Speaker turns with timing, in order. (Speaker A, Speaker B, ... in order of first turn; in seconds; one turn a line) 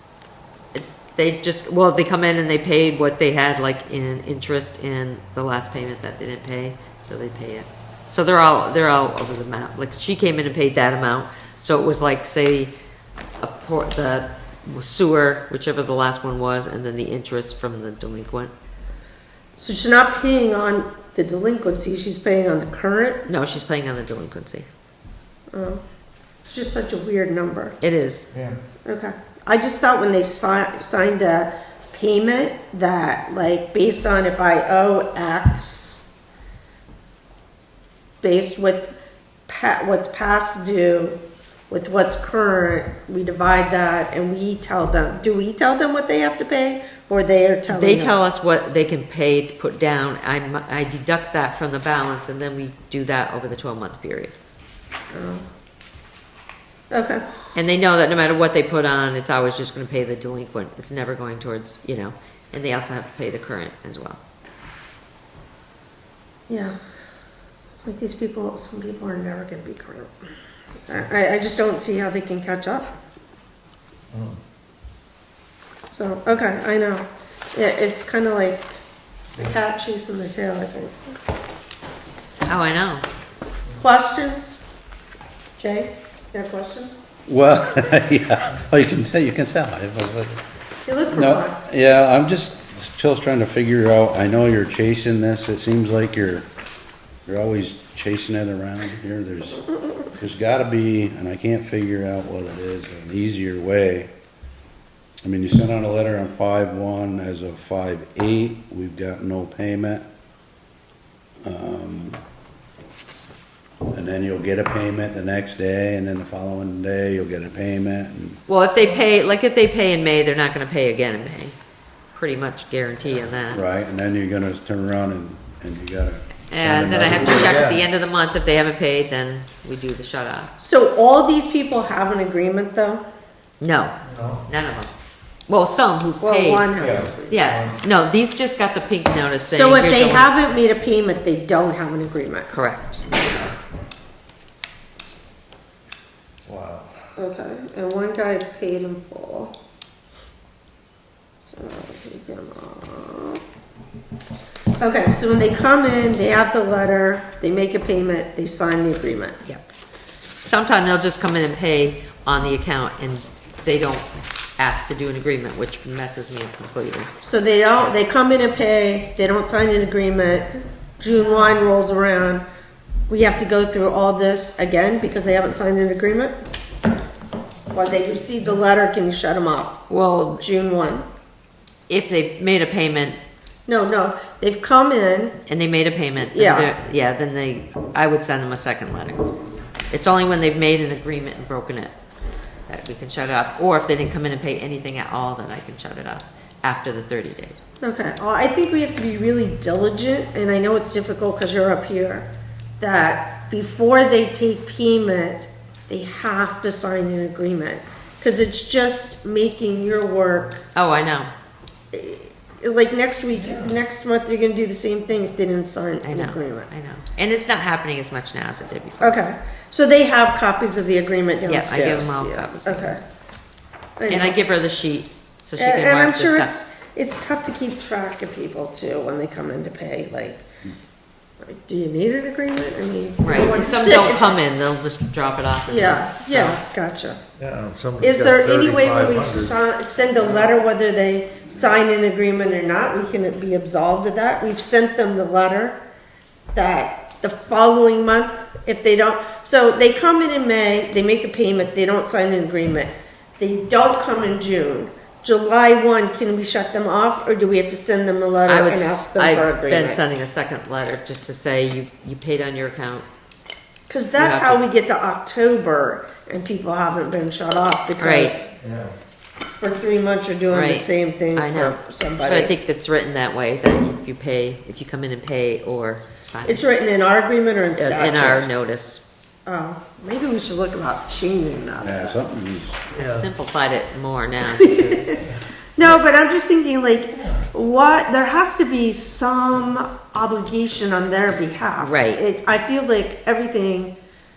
Speaker A: 0.7-12.7
Speaker A: 13.4-18.5
Speaker B: 19.6-23.2
Speaker A: 23.3-24.7
Speaker B: 25.5-25.8
Speaker B: 26.5-27.8
Speaker A: 27.8-28.2
Speaker C: 28.3-28.6
Speaker B: 28.9-36.1
Speaker B: 38.2-38.9
Speaker B: 39.5-41.2
Speaker B: 41.7-48.2
Speaker A: 47.7-54.4
Speaker B: 55.1-55.5
Speaker B: 56.9-57.2
Speaker A: 57.5-64.2
Speaker B: 66.5-66.8
Speaker B: 67.8-70.1
Speaker B: 70.9-72.9
Speaker C: 74.1-74.4
Speaker B: 75.9-78.7
Speaker B: 79.4-81.0
Speaker A: 82.5-83.0
Speaker B: 83.8-84.7
Speaker B: 85.6-87.0
Speaker D: 87.3-90.4
Speaker B: 90.9-91.7
Speaker D: 91.1-96.5
Speaker D: 97.3-104.1
Speaker D: 105.2-110.1
Speaker D: 111.4-112.2
Speaker D: 113.9-118.4
Speaker A: 118.5-121.6
Speaker A: 122.1-123.6
Speaker D: 123.5-127.5
Speaker A: 126.5-130.5
Speaker C: 127.2-127.8
Speaker B: 130.6-133.0
Speaker A: 133.6-133.9
Speaker C: 134.0-134.4
Speaker A: 134.5-134.9
Speaker A: 135.5-140.3
Speaker B: 136.2-137.6
Speaker C: 136.8-137.8
Speaker B: 139.5-142.5
Speaker A: 142.5-143.1
Speaker C: 146.5-147.0
Speaker B: 147.2-149.5
Speaker B: 151.4-153.4
Speaker B: 154.8-159.4
Speaker A: 160.4-164.1
Speaker A: 164.6-167.1
Speaker B: 167.2-172.4
Speaker B: 173.1-176.3
Speaker B: 177.7-179.8
Speaker A: 179.9-180.4
Speaker B: 180.4-181.1
Speaker A: 181.9-183.2
Speaker B: 183.7-185.4
Speaker A: 185.5-189.2
Speaker B: 186.2-186.7
Speaker A: 189.9-191.9
Speaker A: 192.7-197.6
Speaker B: 197.8-202.3
Speaker B: 202.8-210.6
Speaker A: 210.8-211.3
Speaker B: 211.9-216.7
Speaker C: 213.4-213.8
Speaker A: 216.1-219.2
Speaker B: 219.0-223.0
Speaker A: 221.5-223.0
Speaker B: 224.0-224.4
Speaker A: 224.1-226.6
Speaker B: 225.6-230.4
Speaker B: 231.4-234.4
Speaker A: 233.2-236.6
Speaker B: 235.7-237.2
Speaker C: 237.4-239.6
Speaker B: 238.0-245.8
Speaker B: 246.5-260.0
Speaker A: 258.5-263.1
Speaker B: 263.9-268.5
Speaker A: 264.2-264.6
Speaker A: 268.0-268.3
Speaker C: 268.6-268.9
Speaker B: 269.6-272.5
Speaker A: 270.5-276.7
Speaker B: 276.5-278.5
Speaker A: 277.8-279.0
Speaker B: 279.5-282.2
Speaker D: 281.8-282.8
Speaker C: 282.9-283.3
Speaker A: 283.0-285.2
Speaker B: 284.4-285.2
Speaker B: 285.8-293.9
Speaker A: 291.8-292.2